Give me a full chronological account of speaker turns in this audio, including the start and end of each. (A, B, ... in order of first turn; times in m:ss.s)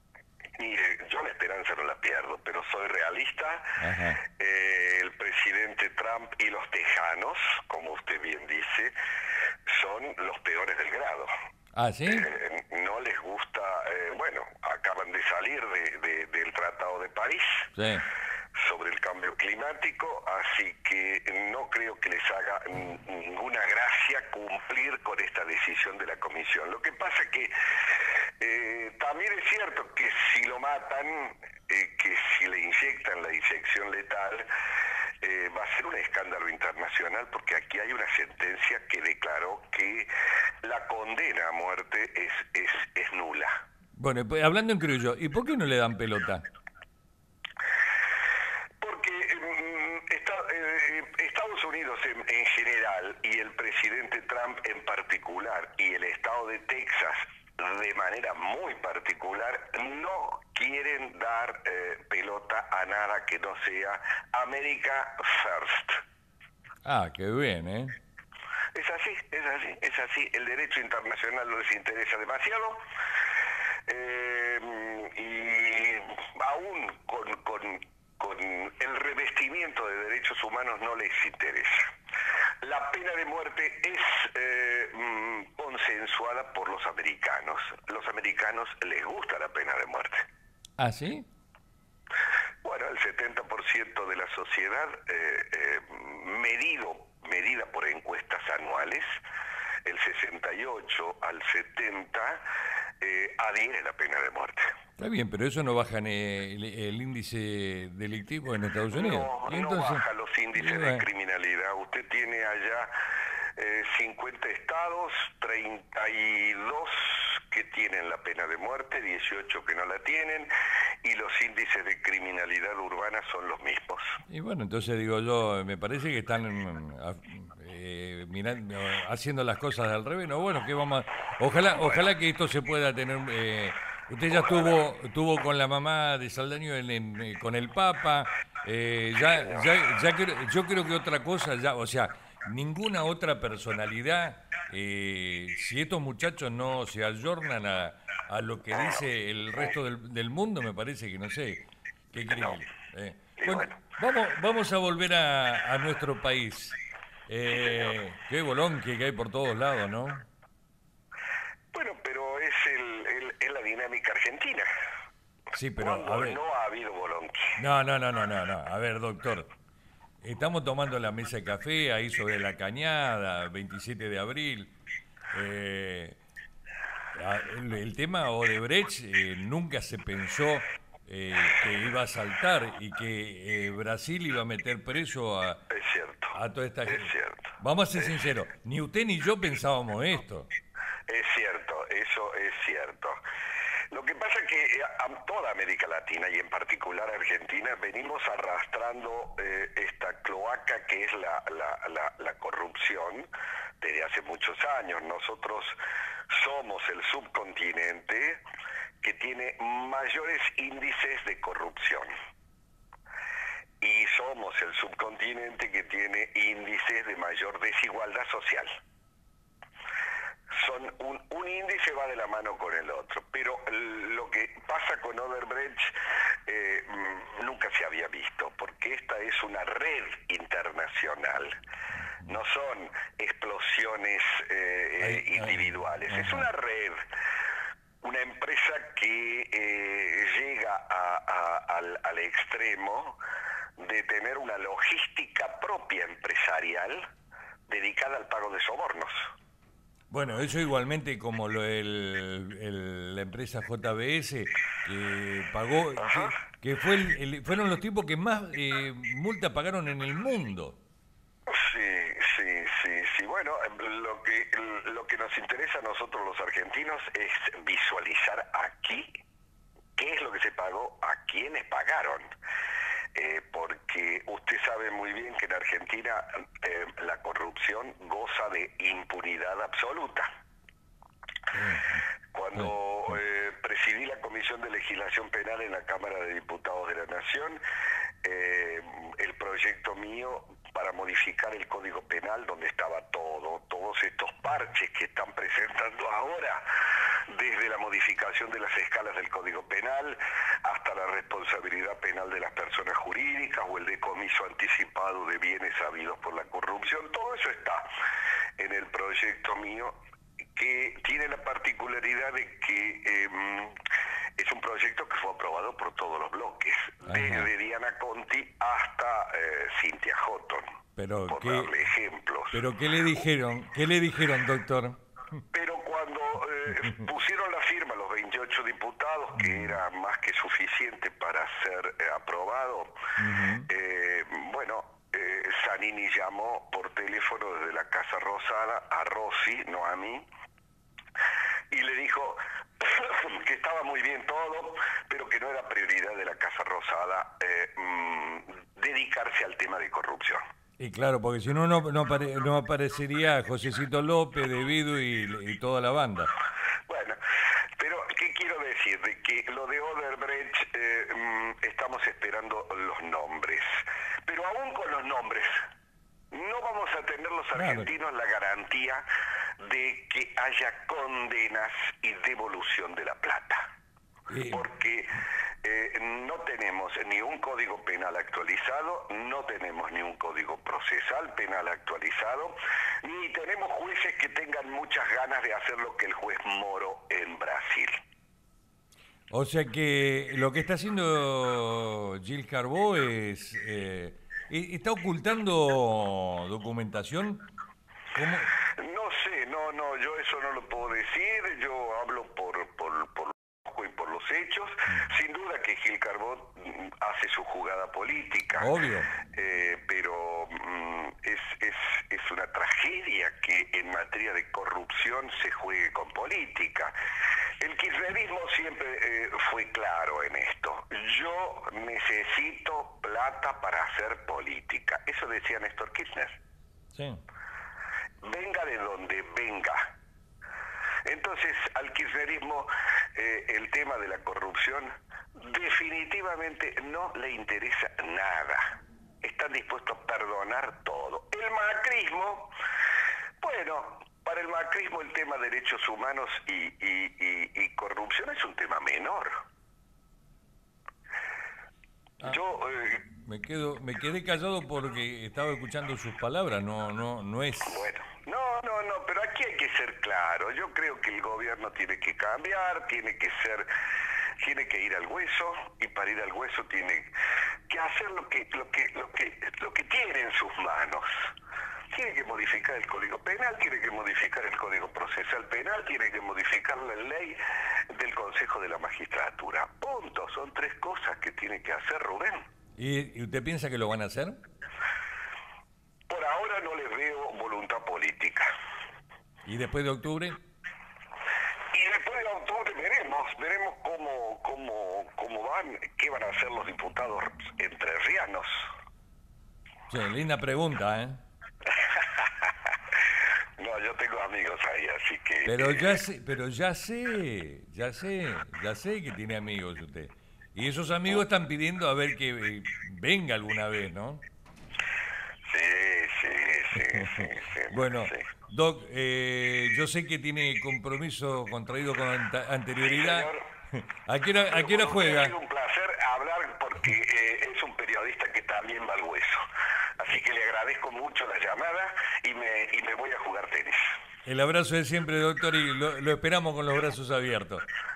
0:00.6-0:03.8 A
0:03.8-0:04.2 B
0:04.3-0:08.9 A
0:09.7-0:11.3 A
0:11.7-0:12.3 B
0:12.0-0:17.7 A
0:17.8-0:18.0 B
0:18.6-0:27.5 A
0:28.4-0:34.5 A
0:35.2-0:40.1 A
0:40.6-0:43.6 A
0:44.0-0:46.4 B
0:48.8-1:06.0 A
1:06.8-1:07.9 B
1:08.7-1:12.8 A
1:13.9-1:21.8 A
1:22.6-1:30.2 A
1:30.8-1:31.3 B
1:32.6-1:39.1 A
1:39.8-1:42.4 A
1:43.0-1:44.7 A
1:45.0-1:50.0 B
1:48.9-1:52.9 A
1:50.5-1:51.0 B
1:53.6-2:00.5 A
2:01.0-2:04.2 A
2:04.3-2:36.8 B
2:11.7-2:12.1 A
2:14.3-2:14.6 A
2:19.3-2:19.6 A
2:28.7-2:29.0 A
2:32.3-2:32.6 A
2:33.4-2:33.8 A
2:37.3-2:40.3 B
2:37.5-2:37.9 A
2:41.7-2:44.7 A
2:45.5-2:46.4 B
2:45.8-2:47.6 A
2:47.6-2:49.5 B
2:50.2-2:54.7 B
2:55.3-2:56.2 B
2:57.1-3:05.6 B
3:05.7-3:06.4 A
3:06.3-3:10.5 B
3:06.9-3:08.0 A
3:11.1-3:13.2 A
3:13.9-3:23.3 A
3:23.8-3:25.8 A
3:26.3-3:28.4 A
3:29.0-3:32.1 A
3:33.8-3:38.8 A
3:40.5-3:45.9 A
3:46.4-3:51.5 A
3:52.2-3:57.0 A
3:55.0-3:56.5 B
3:58.0-4:03.2 A
4:03.8-4:07.0 A
4:07.7-4:09.3 A
4:10.1-4:20.8 B
4:16.0-4:16.3 A
4:21.5-4:29.1 A
4:30.0-4:32.2 A
4:33.1-4:40.3 A
4:41.5-4:42.0 B
4:42.3-4:47.6 A
4:48.2-4:56.6 A
4:57.3-5:07.9 A
5:08.6-5:10.0 A
5:10.5-5:13.8 A
5:14.4-5:20.6 A
5:17.0-5:17.5 B
5:21.0-5:21.7 B
5:21.3-5:22.6 A
5:22.5-5:25.0 B
5:25.5-5:33.0 A
5:29.4-5:29.8 B
5:33.2-5:33.7 B
5:33.7-5:40.2 A
5:41.7-5:50.4 A
5:50.8-5:56.3 B
5:56.9-5:57.2 A
5:57.8-6:05.6 A
6:06.3-6:09.0 A
6:07.5-6:07.9 B
6:09.6-6:13.7 A
6:14.3-6:14.7 B
6:14.5-6:15.1 A
6:15.6-6:28.0 A
6:29.3-6:37.5 B
6:38.1-6:38.5 B
6:38.8-6:48.7 A
6:44.9-6:45.2 B
6:48.6-6:49.1 B
6:49.3-6:56.9 A
6:57.6-7:06.4 A
7:06.9-7:07.2 B
7:08.2-7:09.9 A
7:11.0-7:22.5 A
7:23.4-7:29.4 A
7:32.2-7:33.0 A
7:33.1-7:37.9 B
7:37.7-7:43.7 A
7:44.4-7:47.1 A
7:47.7-7:51.1 A
7:51.9-8:02.4 A
8:02.8-8:04.4 B
8:06.1-8:08.5 A
8:09.4-8:10.4 B
8:11.7-8:18.7 A
8:19.9-8:21.2 B
8:21.9-8:22.5 A
8:23.6-8:26.0 A
8:25.4-8:34.2 B
8:35.4-8:38.2 A
8:37.0-8:45.4 B
8:42.8-8:43.4 A
8:44.5-8:49.4 A
8:50.0-8:53.8 A
8:54.2-8:57.6 B